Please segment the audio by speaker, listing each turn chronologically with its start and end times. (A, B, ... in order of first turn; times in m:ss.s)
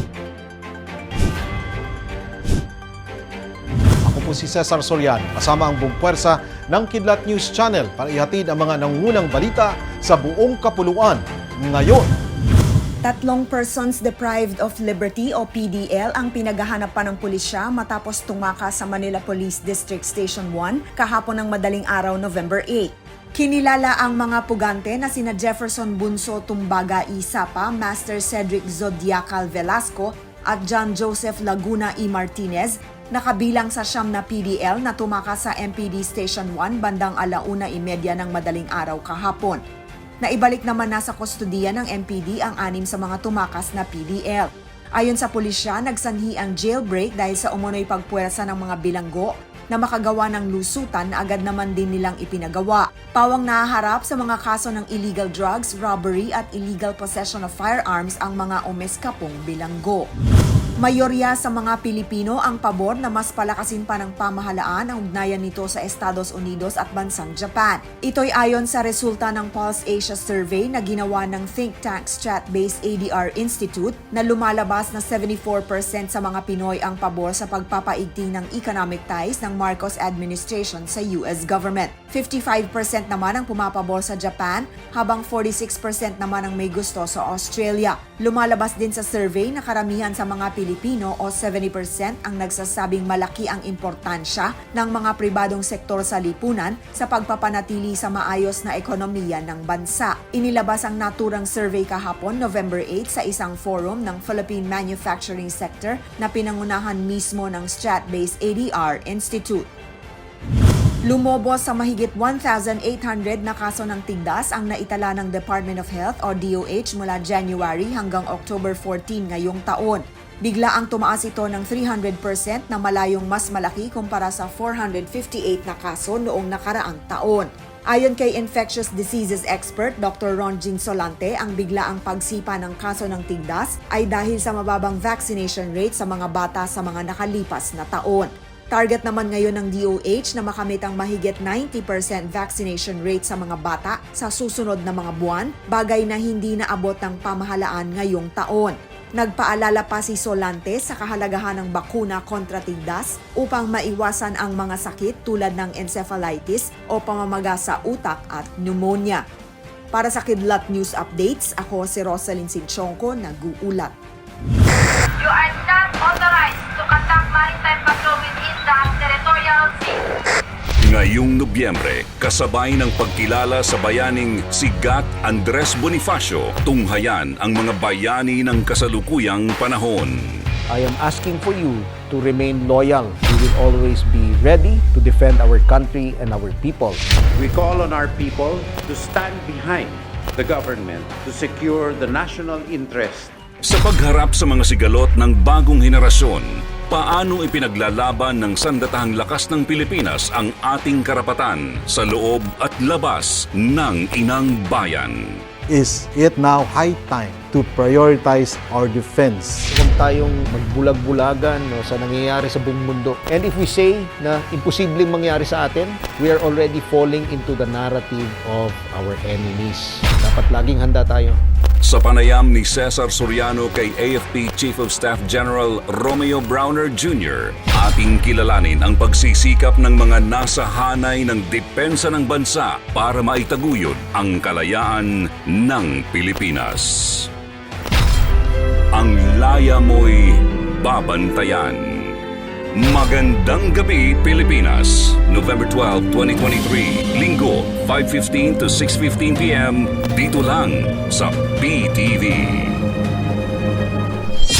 0:04.0-0:12.1 A
0:13.0-0:39.6 B
0:40.2-1:00.1 B
1:00.8-1:49.6 B
1:51.0-2:39.2 B
2:39.9-2:43.9 B
2:45.2-2:50.0 C
2:50.8-3:00.4 D
3:00.7-3:07.0 E
3:07.3-3:13.3 F
3:13.6-3:25.4 D
3:25.7-3:29.7 A
3:29.7-3:41.4 E
3:41.8-3:57.3 D
3:58.9-4:02.2 D
4:02.7-4:12.8 D